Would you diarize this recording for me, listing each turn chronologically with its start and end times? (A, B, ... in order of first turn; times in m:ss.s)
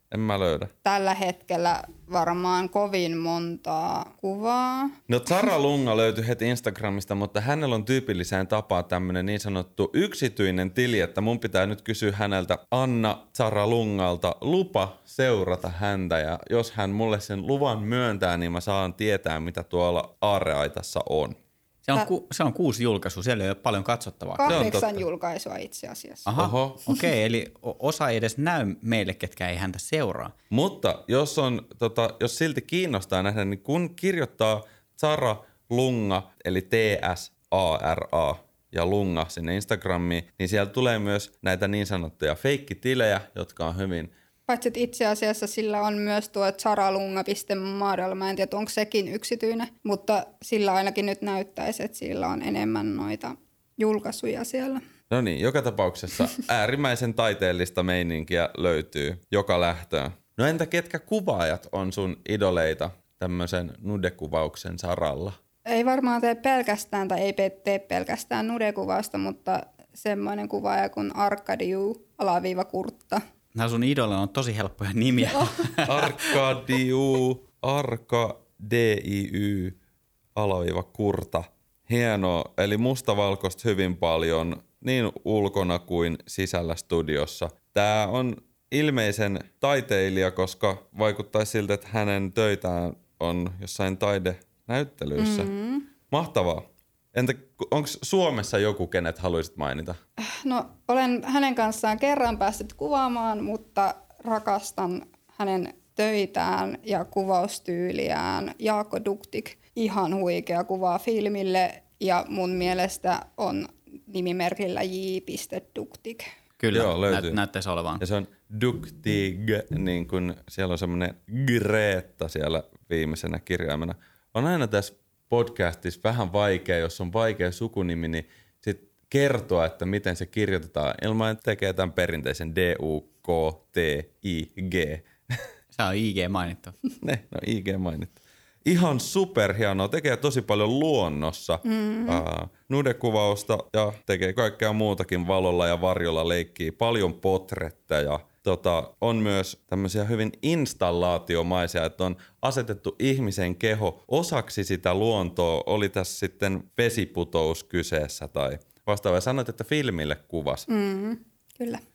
0:00.1-0:00.7 A
0:00.8-0:05.0 B
0:05.1-0:21.4 A
0:21.8-0:24.8 C
0:24.4-0:26.4 B
0:24.4-0:24.8 A
0:26.3-0:30.3 C
0:26.4-0:26.8 A
0:30.5-0:44.1 A
0:44.5-0:54.8 B
0:55.1-1:05.4 A
1:05.6-1:13.2 B
1:13.5-1:16.3 C
1:15.8-1:19.8 A
1:20.3-1:35.5 A
1:35.2-1:35.9 B
1:36.1-1:40.0 A
1:40.2-1:56.3 B
1:56.6-1:58.0 C
1:56.7-1:57.4 A
1:58.0-2:15.4 A
2:15.7-2:16.7 C
2:17.0-2:40.7 A
2:21.6-2:22.2 B
2:40.7-2:41.8 B